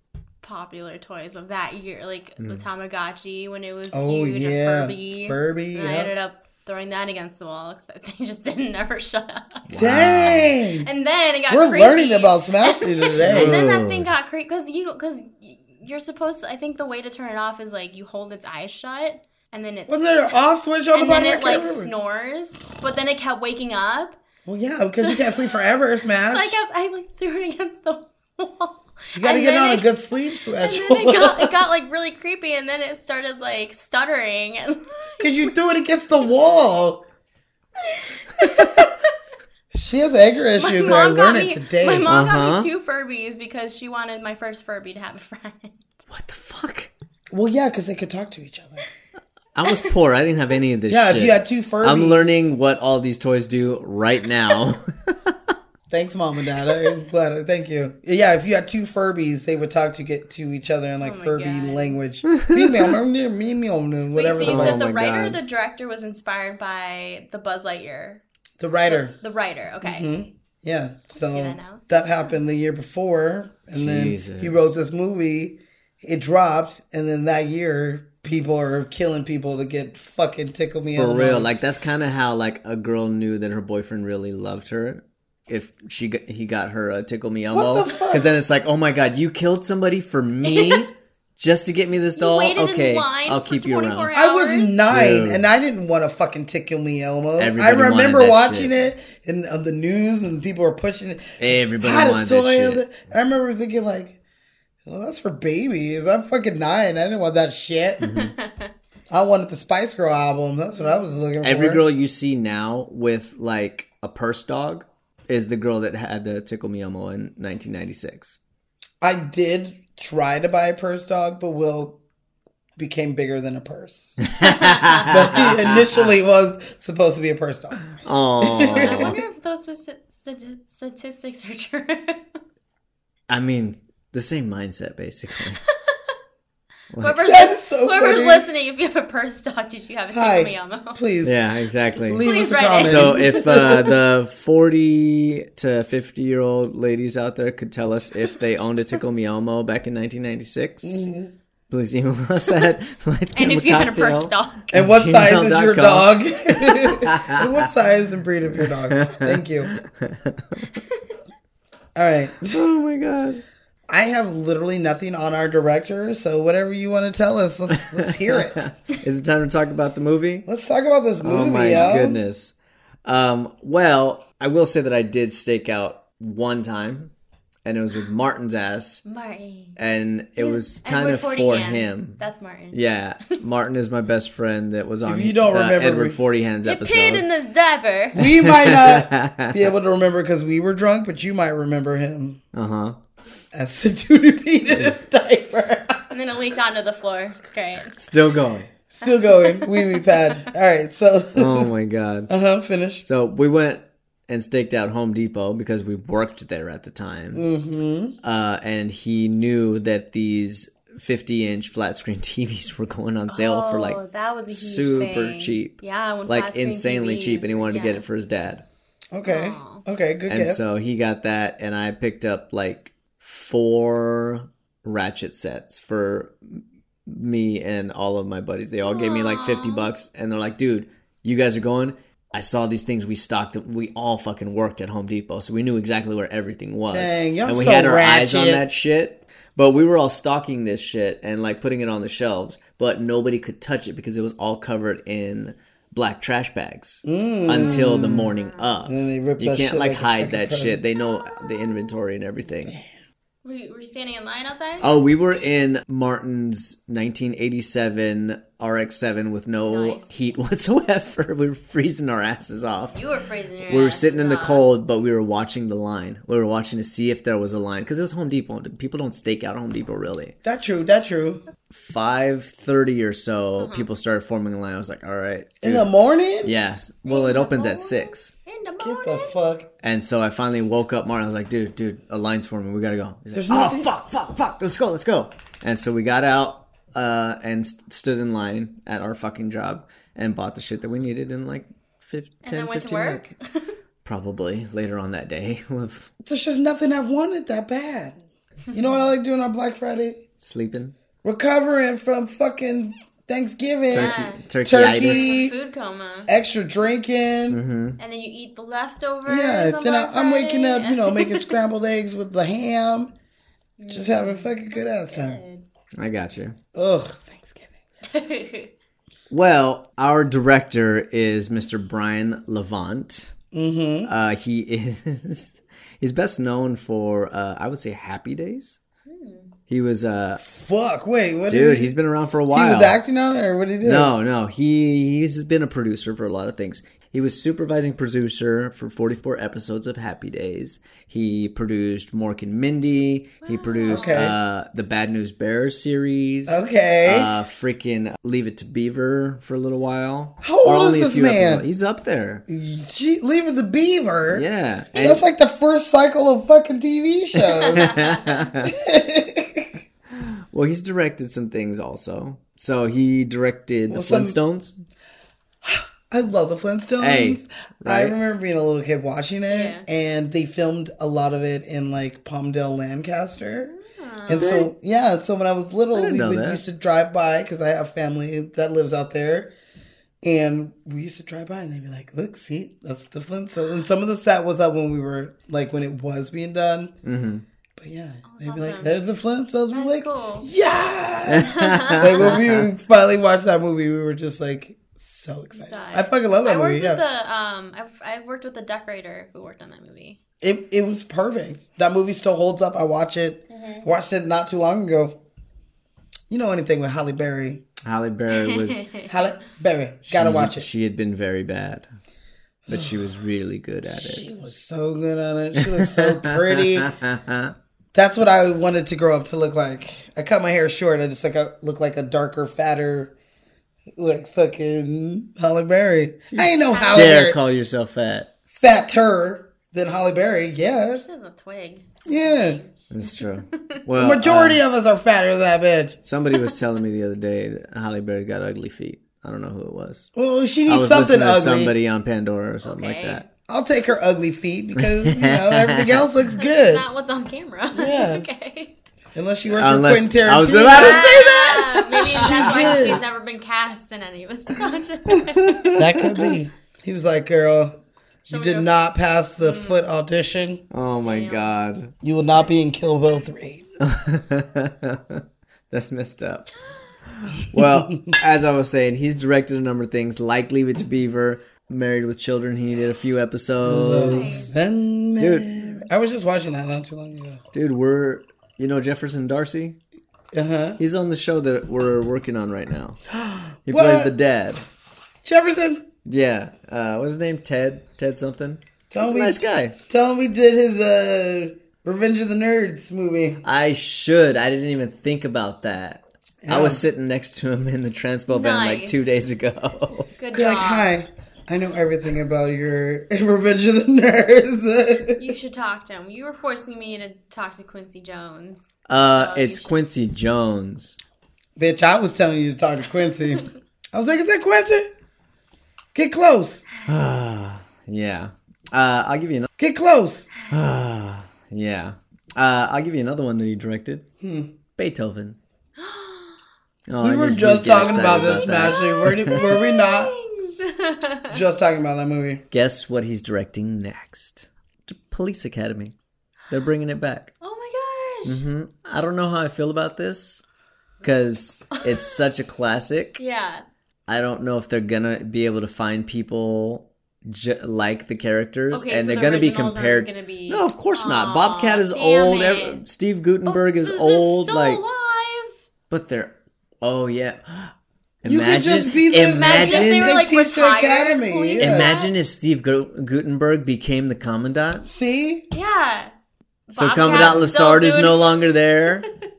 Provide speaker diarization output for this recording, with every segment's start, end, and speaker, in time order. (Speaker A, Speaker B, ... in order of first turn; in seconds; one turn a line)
Speaker A: 0.4-9.6
Speaker B: 3.9-6.1
Speaker C: 9.7-10.5
Speaker B: 9.7-10.9
Speaker A: 10.8-20.4
Speaker B: 11.5-13.6
Speaker C: 13.2-14.1
Speaker B: 19.9-21.9
Speaker A: 20.9-24.2
Speaker B: 24.4-26.6
Speaker A: 24.9-25.5
Speaker A: 26.3-30.0
Speaker B: 29.1-31.6
Speaker A: 30.6-35.5
Speaker B: 35.2-37.0
Speaker A: 37.8-39.1
Speaker B: 39.7-42.0
Speaker A: 40.6-45.8
Speaker C: 42.0-42.7
Speaker C: 46.1-46.9
Speaker B: 47.3-48.8
Speaker C: 49.5-55.3
Speaker B: 50.9-52.4
Speaker B: 55.9-64.8
Speaker A: 61.0-62.0
Speaker C: 62.3-62.9
Speaker A: 64.1-68.2
Speaker C: 64.4-65.4
Speaker B: 68.6-69.2
Speaker A: 68.9-70.1
Speaker B: 69.8-81.5
Speaker A: 71.1-71.8
Speaker C: 73.7-74.7
Speaker C: 81.0-94.1
Speaker B: 87.5-88.3
Speaker A: 90.4-90.9
Speaker A: 92.2-94.7
Speaker B: 94.1-104.2
Speaker C: 94.9-95.5
Speaker C: 97.4-98.7
Speaker C: 101.4-102.8
Speaker B: 104.8-108.1
Speaker C: 108.0-108.3
Speaker A: 108.1-108.7
Speaker B: 109.1-111.8
Speaker C: 111.4-118.4
Speaker B: 119.0-122.0
Speaker B: 122.8-124.3
Speaker C: 124.2-126.1
Speaker A: 124.4-125.0
Speaker B: 125.1-127.9
Speaker C: 128.0-129.2
Speaker B: 128.4-129.2
Speaker A: 128.7-132.3
Speaker C: 133.3-135.6
Speaker C: 136.9-137.3
Speaker A: 137.0-141.0
Speaker B: 137.2-138.5
Speaker B: 140.1-141.4
Speaker C: 141.2-142.2
Speaker B: 142.0-143.9
Speaker A: 142.2-143.4
Speaker C: 142.8-151.1
Speaker B: 150.8-151.3
Speaker C: 151.7-157.5
Speaker A: 153.3-154.7
Speaker B: 154.7-159.7
Speaker C: 158.7-160.7
Speaker B: 161.9-162.6
Speaker C: 162.5-163.4
Speaker B: 163.9-168.7
Speaker C: 168.0-170.4
Speaker B: 170.4-172.2
Speaker C: 171.2-172.5
Speaker C: 173.0-177.1
Speaker C: 177.6-179.0
Speaker A: 179.0-179.8
Speaker C: 179.8-182.2
Speaker A: 180.4-182.8
Speaker C: 182.7-187.2
Speaker B: 185.0-186.2
Speaker A: 186.6-188.3
Speaker B: 188.1-192.4
Speaker C: 188.4-189.6
Speaker C: 192.5-193.0
Speaker B: 193.5-196.1
Speaker C: 194.7-194.9
Speaker A: 196.1-198.1
Speaker C: 198.1-198.7
Speaker B: 199.0-201.7
Speaker A: 199.0-200.0
Speaker C: 201.3-202.3
Speaker B: 202.3-203.0
Speaker C: 203.0-207.4
Speaker B: 207.3-208.2
Speaker C: 208.2-218.6
Speaker A: 213.3-218.0
Speaker B: 219.1-220.6
Speaker A: 219.2-219.8
Speaker C: 220.3-252.8
Speaker A: 228.8-229.8
Speaker B: 236.9-238.6
Speaker B: 247.0-248.3
Speaker B: 248.8-250.8
Speaker A: 253.4-254.9
Speaker C: 254.8-262.9
Speaker A: 259.7-260.1
Speaker A: 262.9-264.6
Speaker C: 263.7-270.3
Speaker B: 270.4-271.4
Speaker C: 271.7-275.9
Speaker A: 273.6-273.9
Speaker B: 275.6-276.5
Speaker C: 276.4-278.3
Speaker A: 277.1-279.4
Speaker B: 278.8-279.7
Speaker C: 279.8-293.3
Speaker B: 283.3-283.9
Speaker A: 292.4-293.7
Speaker C: 294.0-296.1
Speaker B: 296.2-298.2
Speaker B: 298.7-300.2
Speaker C: 300.4-300.9
Speaker B: 301.2-305.5
Speaker C: 303.9-305.4
Speaker A: 303.9-304.4
Speaker A: 305.0-306.3
Speaker B: 306.3-307.6
Speaker C: 307.5-308.0
Speaker A: 308.0-311.6
Speaker B: 309.2-313.1
Speaker A: 313.8-315.6
Speaker B: 313.9-315.4
Speaker C: 315.9-316.6
Speaker B: 316.7-317.8
Speaker A: 318.1-318.7
Speaker C: 319.3-323.3
Speaker B: 323.5-324.1
Speaker C: 324.1-328.8
Speaker A: 329.1-329.5
Speaker C: 329.7-330.4
Speaker B: 330.4-331.9
Speaker C: 331.5-333.0
Speaker B: 332.5-334.1
Speaker C: 333.8-352.4
Speaker A: 343.4-344.2
Speaker B: 343.9-344.4
Speaker B: 346.5-347.3
Speaker B: 350.4-351.6
Speaker B: 352.5-354.4
Speaker C: 354.3-355.2
Speaker A: 354.9-355.2
Speaker B: 355.0-357.9
Speaker C: 357.7-358.7
Speaker A: 357.8-358.4
Speaker B: 358.6-359.8
Speaker C: 360.1-364.7
Speaker B: 363.9-364.4
Speaker B: 365.6-373.7
Speaker C: 367.0-368.1
Speaker A: 369.5-369.9
Speaker A: 373.7-374.6
Speaker B: 374.3-379.5
Speaker C: 374.4-374.6
Speaker C: 375.9-376.6
Speaker B: 380.2-387.0
Speaker C: 387.0-387.4
Speaker B: 387.8-397.0
Speaker A: 388.2-389.0
Speaker A: 389.7-390.5
Speaker C: 391.2-392.7
Speaker A: 391.5-392.3
Speaker A: 395.6-400.2
Speaker B: 400.4-405.2
Speaker A: 403.5-403.9
Speaker B: 406.3-407.6
Speaker C: 407.8-408.9
Speaker A: 408.5-409.1
Speaker B: 409.1-410.7
Speaker C: 410.1-411.9
Speaker C: 412.7-414.3
Speaker B: 413.9-416.9
Speaker C: 415.6-417.5
Speaker B: 417.9-423.1
Speaker B: 423.9-427.4
Speaker C: 426.3-428.3
Speaker A: 426.6-427.2
Speaker B: 428.5-431.0
Speaker A: 430.9-432.9
Speaker B: 432.0-432.6
Speaker C: 432.9-434.6
Speaker B: 433.9-436.0
Speaker C: 436.0-440.1
Speaker B: 440.1-441.7
Speaker C: 440.7-443.2
Speaker A: 442.6-443.2
Speaker B: 443.5-446.8
Speaker C: 444.8-446.1
Speaker A: 446.4-448.7
Speaker B: 447.7-448.3
Speaker B: 449.1-451.3
Speaker C: 449.5-453.0
Speaker A: 450.7-455.7
Speaker B: 451.9-453.0
Speaker C: 455.4-456.3
Speaker B: 455.8-460.6
Speaker A: 458.3-458.7
Speaker A: 459.4-459.8
Speaker C: 460.7-461.9
Speaker A: 461.0-461.5
Speaker B: 462.0-463.6
Speaker C: 463.8-466.5
Speaker C: 467.3-474.4
Speaker B: 467.6-467.8
Speaker B: 473.6-477.4
Speaker A: 474.0-474.5
Speaker C: 475.2-475.7
Speaker C: 477.5-479.8
Speaker B: 480.3-480.8
Speaker C: 480.8-483.0
Speaker B: 483.1-484.1
Speaker C: 483.6-484.6
Speaker B: 485.2-485.9
Speaker C: 486.1-489.8
Speaker B: 488.9-493.4
Speaker C: 493.4-500.1
Speaker B: 496.4-496.8
Speaker A: 498.3-499.1
Speaker A: 500.2-500.9
Speaker B: 500.3-505.3
Speaker A: 505.2-509.7
Speaker C: 508.9-510.9
Speaker B: 511.6-514.9
Speaker B: 515.9-516.7
Speaker C: 516.9-519.5
Speaker B: 519.6-520.3
Speaker C: 520.5-524.1
Speaker B: 524.2-524.5
Speaker C: 524.8-525.4
Speaker A: 525.8-526.4
Speaker C: 526.9-529.4
Speaker B: 527.0-530.1
Speaker A: 527.8-531.4
Speaker B: 531.3-532.4
Speaker C: 532.5-535.9
Speaker C: 536.5-537.3
Speaker A: 537.4-538.4
Speaker C: 538.2-540.4
Speaker C: 541.0-543.2
Speaker A: 543.2-543.6
Speaker C: 544.1-554.8
Speaker A: 548.7-552.8
Speaker A: 553.4-555.5
Speaker C: 555.9-557.7
Speaker C: 558.2-560.2
Speaker B: 558.2-561.9
Speaker A: 559.2-562.1
Speaker C: 561.6-564.9
Speaker B: 564.8-565.5
Speaker A: 565.5-566.1
Speaker A: 566.7-568.4
Speaker C: 566.8-569.0
Speaker B: 567.1-567.4